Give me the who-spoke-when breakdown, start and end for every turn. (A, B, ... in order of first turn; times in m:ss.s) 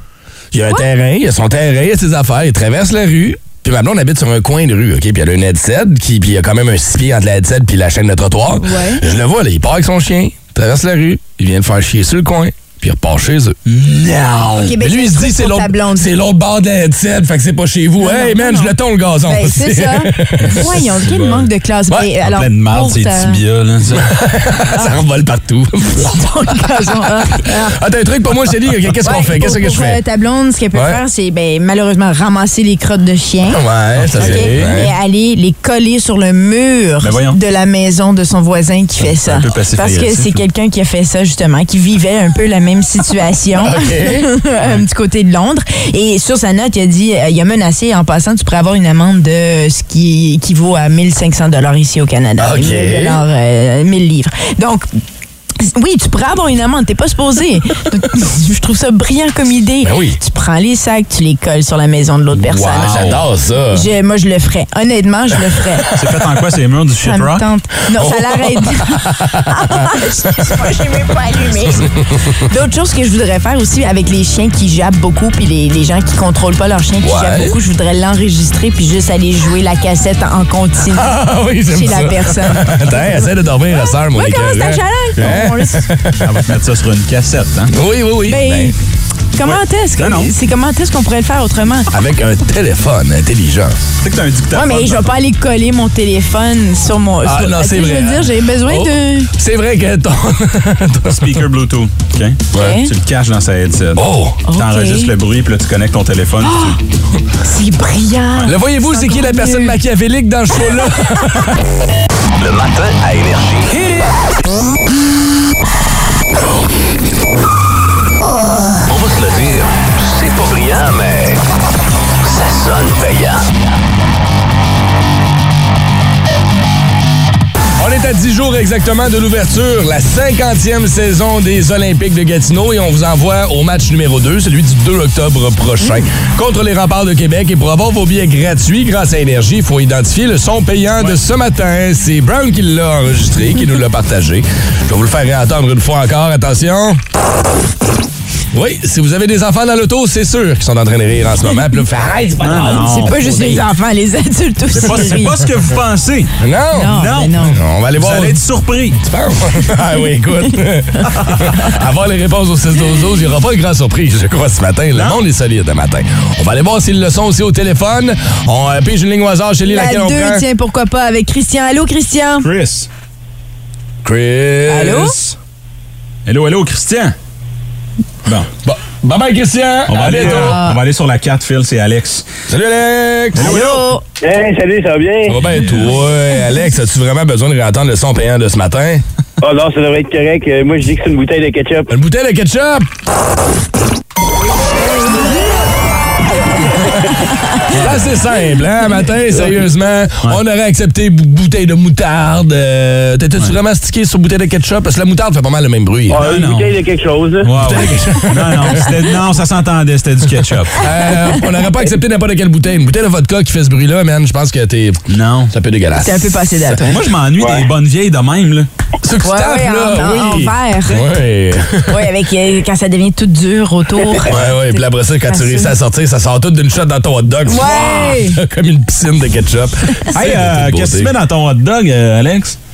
0:00.5-0:20.6 A
0:08.6-0:09.0 B
0:13.7-0:14.4 C
0:14.6-0:16.1 B
0:18.0-0:18.7 B
0:19.2-0:23.4 B
0:20.7-0:21.5 C
0:22.2-0:24.1 C
0:23.8-0:26.9 A
0:25.9-0:27.8 B
0:27.4-0:30.0 A
0:29.0-0:33.6 B
0:30.7-0:31.0 A
0:33.5-0:34.9 A
0:34.0-0:34.8 C
0:34.2-0:54.9 B
0:37.0-0:37.4 C
0:39.0-0:40.4 C
0:43.6-0:44.3 A
0:52.4-0:53.2 A
0:55.6-1:03.1 B
0:59.8-1:00.2 A
1:02.4-1:03.9 A
1:02.7-1:03.2 C
1:03.7-1:05.9 B
1:05.9-1:07.4 C
1:07.0-1:25.9 B
1:07.9-1:10.7 A
1:11.5-1:12.5 A
1:17.0-1:17.6 A
1:20.9-1:26.3 A
1:26.2-1:27.7 C
1:27.7-1:28.7 A
1:28.3-1:28.7 B
1:29.3-1:31.9 B
1:29.4-1:30.3 C
1:31.9-1:33.8 A
1:34.0-1:35.1 C
1:34.5-1:39.3 B
1:37.2-1:41.4 A
1:41.0-1:46.8 C
1:42.5-1:42.8 A
1:42.6-1:42.9 B
1:43.9-1:44.4 A
1:44.5-1:45.1 B
1:46.4-1:46.8 B
1:47.4-1:49.8 B
1:48.4-1:51.6 A
1:52.4-1:53.8 D
1:58.9-2:01.4 D
2:02.2-2:03.5 D
2:07.8-2:27.0 A
2:28.5-2:33.6 A
2:32.4-2:33.5 C
2:32.7-2:35.4 B
2:34.7-2:36.3 C
2:36.4-2:38.4 A
2:36.7-2:37.6 B
2:36.9-2:39.0 C
2:39.0-2:50.4 A
2:41.0-2:41.7 B
2:41.1-2:41.4 C
2:44.9-2:45.2 C
2:49.7-2:52.5 B
2:52.4-2:52.9 C
2:54.0-2:55.3 A
2:54.7-2:55.2 B
2:56.2-2:57.1 C
2:58.6-3:00.6 A
2:59.9-3:02.2 C
3:00.1-3:00.8 B
3:02.5-3:03.6 A
3:03.3-3:03.8 C
3:03.4-3:04.0 B
3:04.2-3:05.4 E
3:05.3-3:09.0 A
3:09.4-3:11.9 E
3:11.9-3:12.9 A
3:17.7-3:18.1 C
3:17.7-3:26.2 A
3:26.1-3:27.5 E
3:26.2-3:26.7 C
3:27.4-3:30.8 C
3:27.6-3:29.0 A
3:30.7-3:36.8 A
3:35.1-3:35.5 C
3:36.0-3:37.0 B
3:36.8-3:38.7 C
3:37.4-3:37.6 E
3:39.0-3:42.1 A
3:39.2-3:41.1 B
3:41.9-3:45.7 B
3:44.2-3:51.1 A
3:47.5-3:48.4 B
3:50.1-3:52.6 C